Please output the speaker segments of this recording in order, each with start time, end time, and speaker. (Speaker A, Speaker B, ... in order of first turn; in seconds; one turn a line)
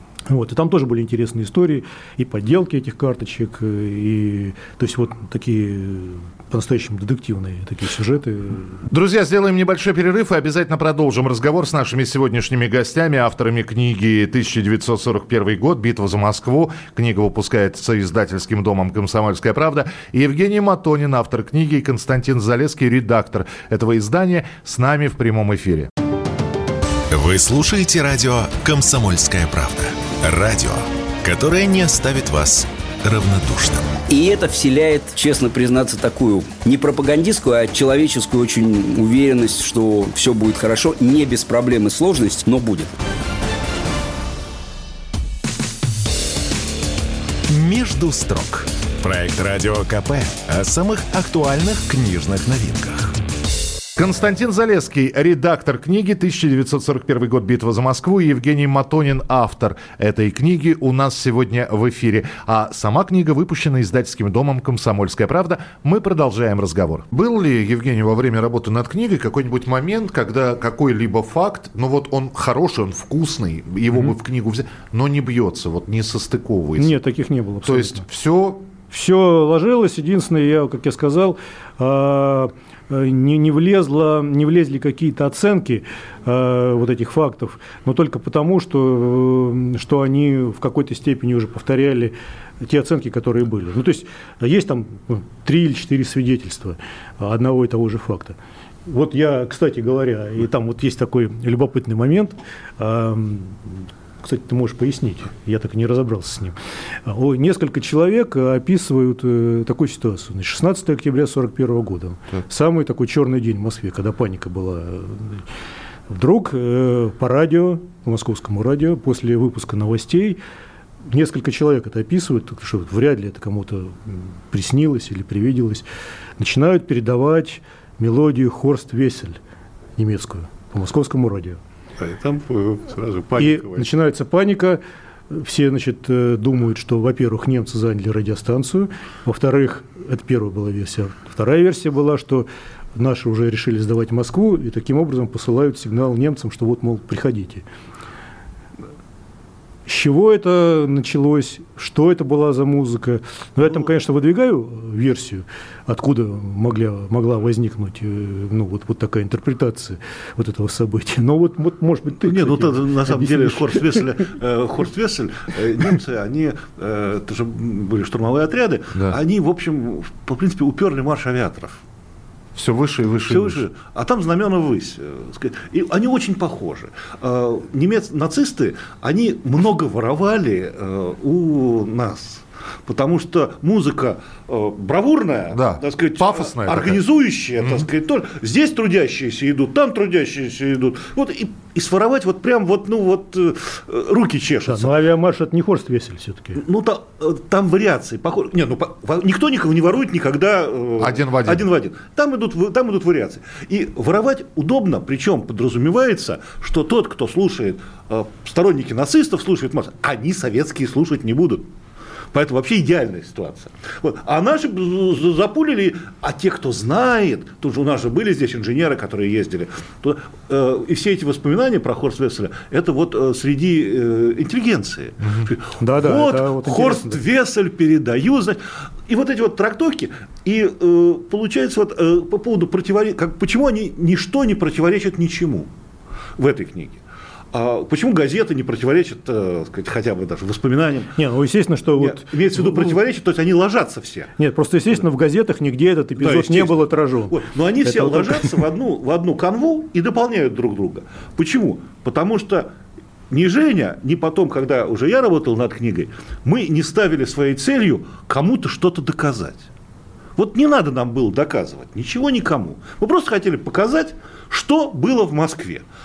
Speaker A: 0.3-8.8
Speaker B: 8.9-25.9
Speaker C: 27.1-34.0
Speaker D: 34.1-43.0
Speaker C: 47.5-53.2
Speaker B: 54.0-77.0
Speaker A: 76.8-78.0
Speaker B: 77.6-78.6
Speaker A: 78.9-115.4
Speaker A: 116.1-120.4
Speaker A: 121.0-125.8
Speaker A: 126.4-129.4
Speaker A: 130.0-131.6
Speaker E: 132.0-133.9
Speaker A: 133.4-147.6
Speaker A: 149.9-164.1
Speaker E: 162.2-171.8
Speaker B: 172.6-173.6
Speaker E: 173.3-194.9
Speaker B: 185.5-187.0
Speaker A: 194.7-196.6
Speaker E: 196.6-211.7
Speaker B: 201.0-201.7
Speaker E: 212.3-235.7
Speaker B: 225.2-225.5
Speaker A: 225.8-227.2
Speaker E: 236.4-237.0
Speaker E: 237.5-241.2
Speaker A: 241.1-243.0
Speaker E: 242.0-244.3
Speaker A: 244.4-248.6
Speaker E: 246.2-252.7
Speaker E: 253.3-259.7
Speaker E: 260.4-265.8